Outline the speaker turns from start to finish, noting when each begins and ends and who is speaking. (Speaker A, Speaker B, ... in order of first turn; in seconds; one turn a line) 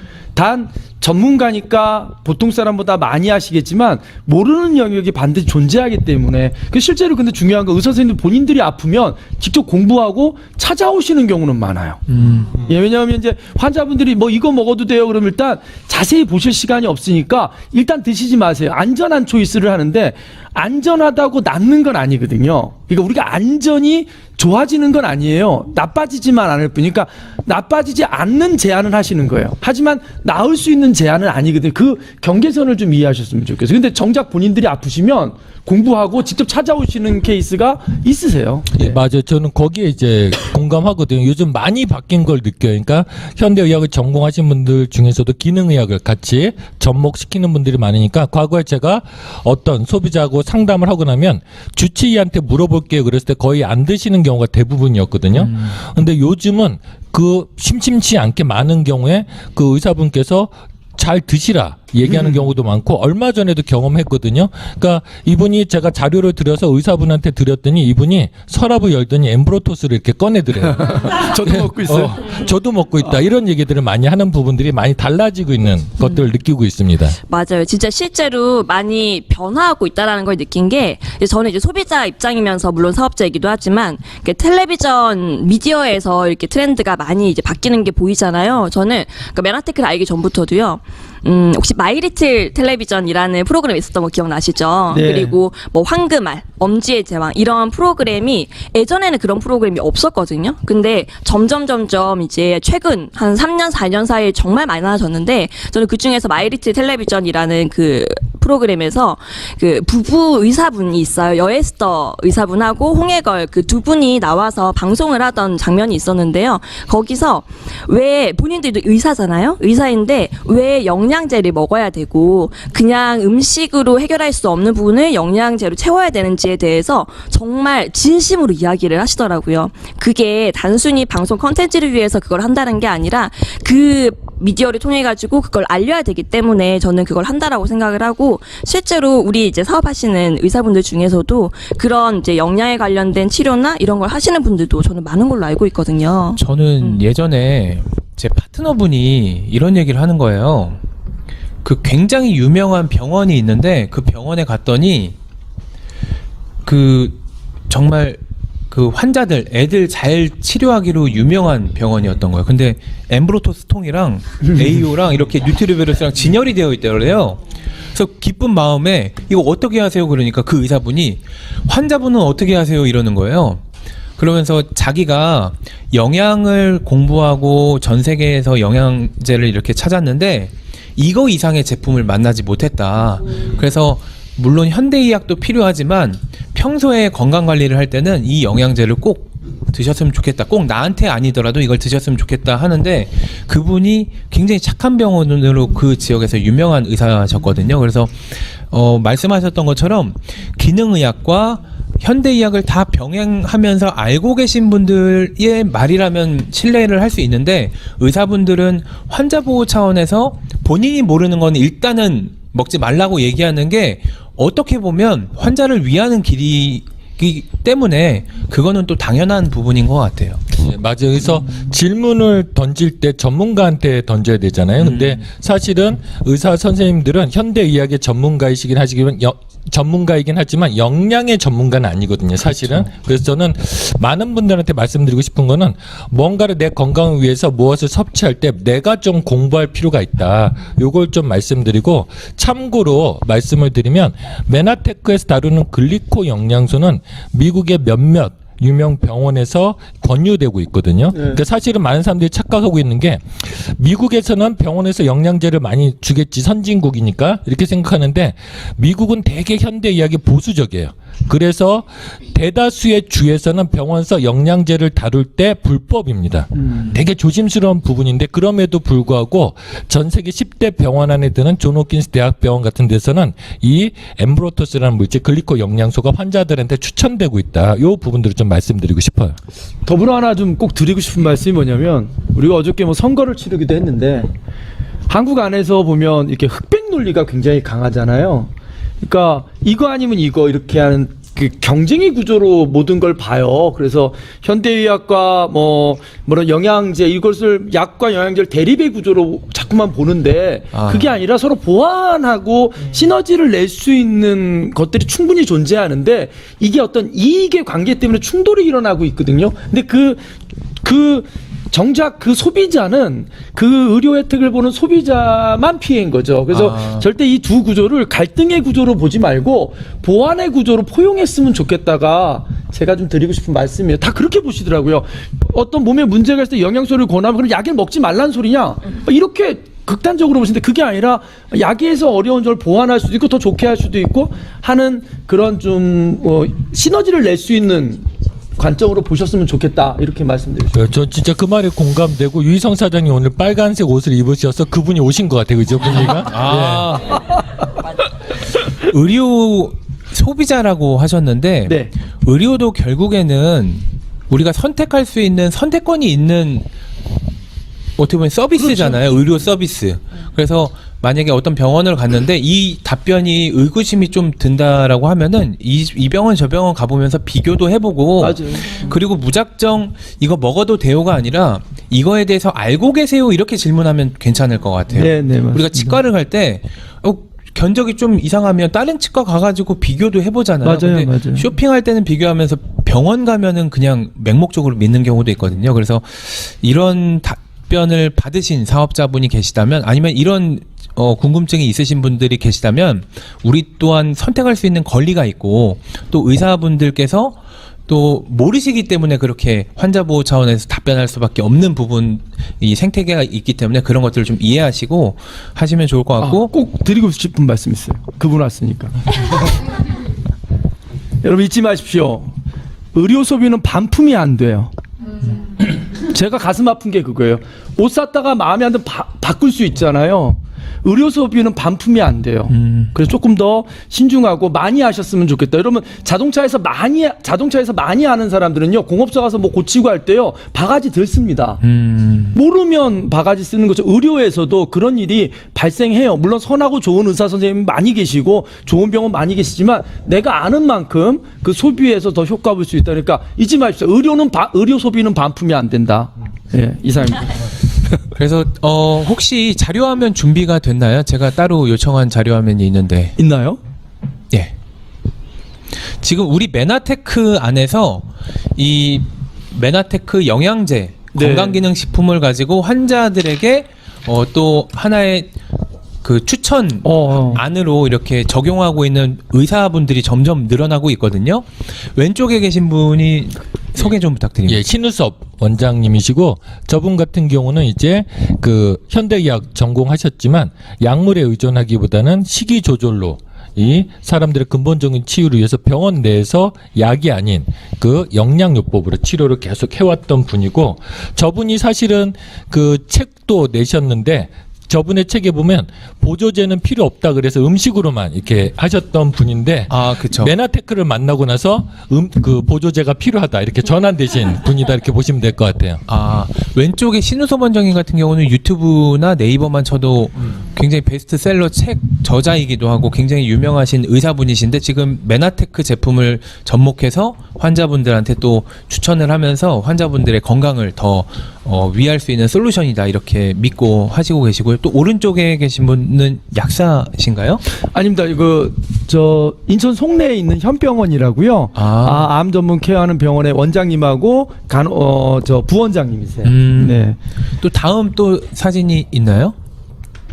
Speaker A: 0.3-12.0
Speaker B: 12.1-12.5
Speaker A: 12.5-39.0
Speaker C: 38.8-77.2
Speaker A: 70.8-72.2
Speaker D: 76.0-76.3
Speaker D: 77.3-147.0
Speaker A: 94.9-95.4
Speaker B: 146.4-150.8
Speaker B: 151.6-155.2
Speaker B: 156.7-157.2
Speaker B: 157.7-158.2
Speaker B: 158.7-173.6
Speaker B: 174.2-220.4
Speaker C: 220.5-279.4
Speaker B: 224.8-225.2
Speaker A: 251.1-251.4
Speaker A: 279.9-284.3
Speaker A: 285.1-288.5
Speaker A: 289.0-310.2
Speaker B: 300.7-301.1
Speaker A: 310.8-338.1
Speaker B: 316.5-317.0
Speaker A: 338.6-340.7
Speaker C: 340.7-347.0
Speaker B: 346.1-347.2
Speaker B: 348.8-356.7
Speaker B: 358.0-406.5
Speaker A: 358.6-359.1
Speaker A: 368.2-368.9
Speaker A: 374.9-376.0
Speaker A: 380.6-381.5
Speaker A: 406.2-408.9
Speaker A: 411.2-412.3
Speaker A: 412.9-414.7
Speaker A: 415.9-431.6
Speaker B: 422.5-422.9
Speaker B: 431.6-432.4
Speaker A: 432.3-447.3
Speaker B: 448.2-453.2
Speaker A: 453.2-453.6
Speaker B: 456.0-465.3
Speaker A: 461.1-461.6
Speaker B: 466.0-474.6
Speaker A: 466.8-467.4
Speaker C: 474.5-505.8
Speaker B: 499.7-500.3
Speaker B: 505.9-527.4
Speaker A: 527.7-537.0
Speaker B: 531.5-532.1
Speaker B: 536.2-539.4